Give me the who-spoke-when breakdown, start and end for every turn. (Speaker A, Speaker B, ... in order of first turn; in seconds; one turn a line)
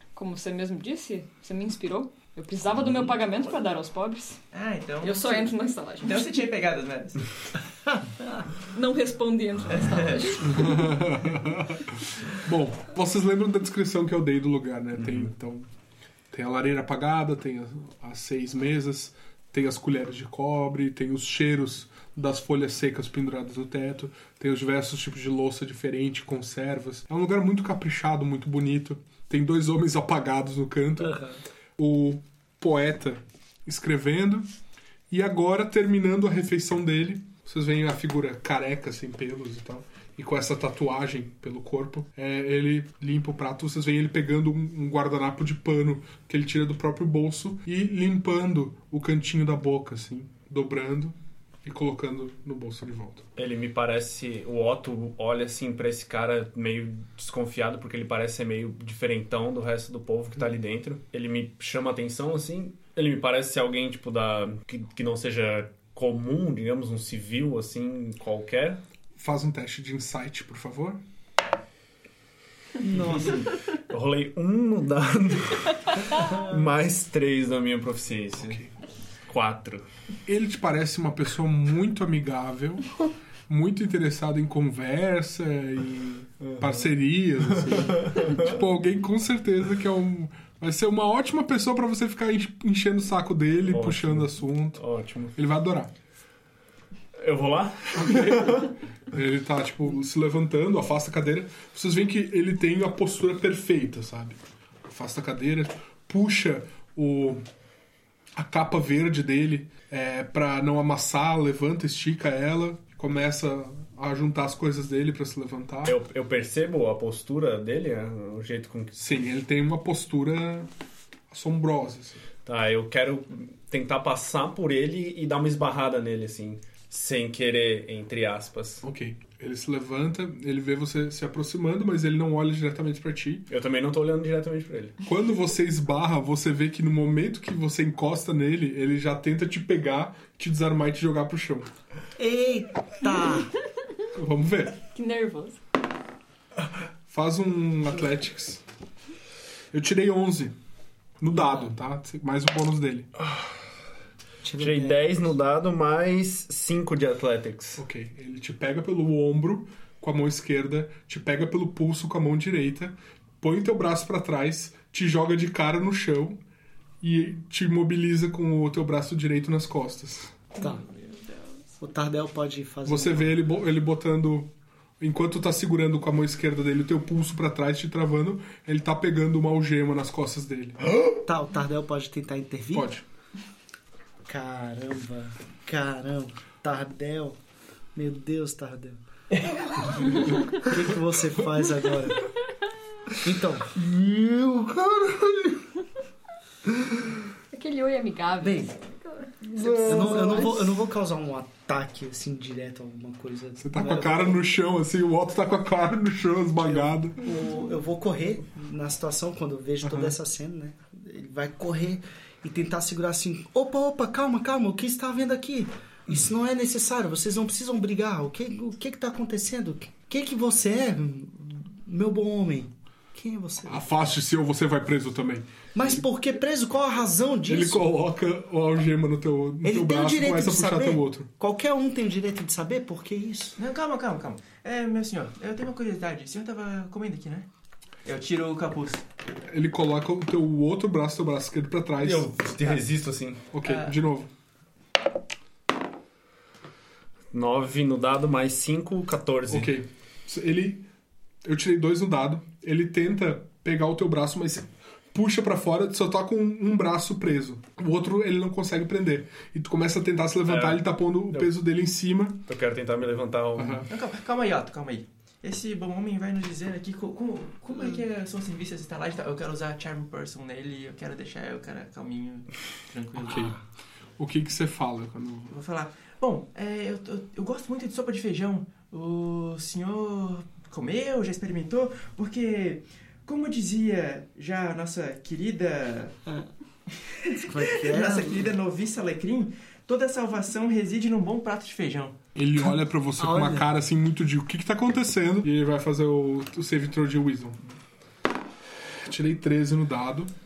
Speaker A: 0.1-4.4
Speaker B: 4.5-7.3
Speaker A: 5.0-6.3
Speaker A: 8.6-10.9
Speaker B: 9.7-10.8
Speaker C: 10.4-15.7
Speaker C: 16.3-31.2
Speaker D: 31.0-31.4
Speaker C: 31.8-34.5
Speaker C: 35.1-53.2
Speaker E: 53.4-68.8
Speaker C: 69.2-71.0
Speaker D: 72.8-73.4
Speaker E: 73.1-78.6
Speaker D: 76.1-76.7
Speaker C: 78.3-78.7
Speaker E: 79.3-79.8
Speaker C: 80.2-94.8
Speaker E: 86.4-88.6
Speaker E: 93.7-95.4
Speaker C: 95.3-95.9
Speaker E: 97.2-98.7
Speaker C: 97.9-107.4
Speaker C: 108.3-116.0
Speaker E: 115.8-119.0
Speaker C: 119.0-120.7
Speaker C: 121.3-122.2
Speaker E: 122.5-128.8
Speaker C: 128.8-133.4
Speaker E: 133.5-134.9
Speaker C: 135.0-141.7
Speaker D: 142.2-143.5
Speaker C: 144.1-144.8
Speaker A: 144.9-145.6
Speaker C: 147.1-148.6
Speaker C: 149.7-150.5
Speaker C: 151.2-153.1
Speaker D: 154.4-155.2
Speaker E: 154.6-157.8
Speaker C: 157.8-166.4
Speaker C: 167.0-170.4
Speaker D: 170.6-170.8
Speaker D: 171.8-173.4
Speaker C: 172.8-180.8
Speaker D: 181.2-182.9
Speaker C: 182.7-183.0
Speaker D: 184.2-187.4
Speaker D: 187.9-189.0
Speaker D: 189.7-192.2
Speaker D: 193.2-195.6
Speaker A: 197.5-199.5
Speaker D: 198.4-198.7
Speaker D: 199.6-204.5
Speaker C: 199.6-200.4
Speaker A: 200.0-200.4
Speaker C: 203.6-207.2
Speaker D: 206.6-223.9
Speaker C: 209.8-210.1
Speaker C: 223.7-225.7
Speaker D: 225.7-227.8
Speaker C: 227.4-231.3
Speaker D: 229.6-233.6
Speaker B: 233.6-237.5
Speaker B: 238.0-239.0
Speaker C: 239.4-242.7
Speaker E: 242.0-243.5
Speaker C: 243.5-244.3
Speaker B: 243.6-244.0
Speaker E: 247.3-249.7
Speaker C: 249.5-250.9
Speaker C: 251.4-262.4
Speaker E: 260.4-261.5
Speaker E: 262.5-263.9
Speaker C: 263.6-263.9
Speaker B: 263.9-273.6
Speaker C: 273.2-273.6
Speaker C: 274.2-275.6
Speaker B: 275.5-286.1
Speaker B: 287.0-292.1
Speaker D: 287.3-288.5
Speaker C: 292.3-297.6
Speaker D: 292.6-293.7
Speaker C: 299.0-300.3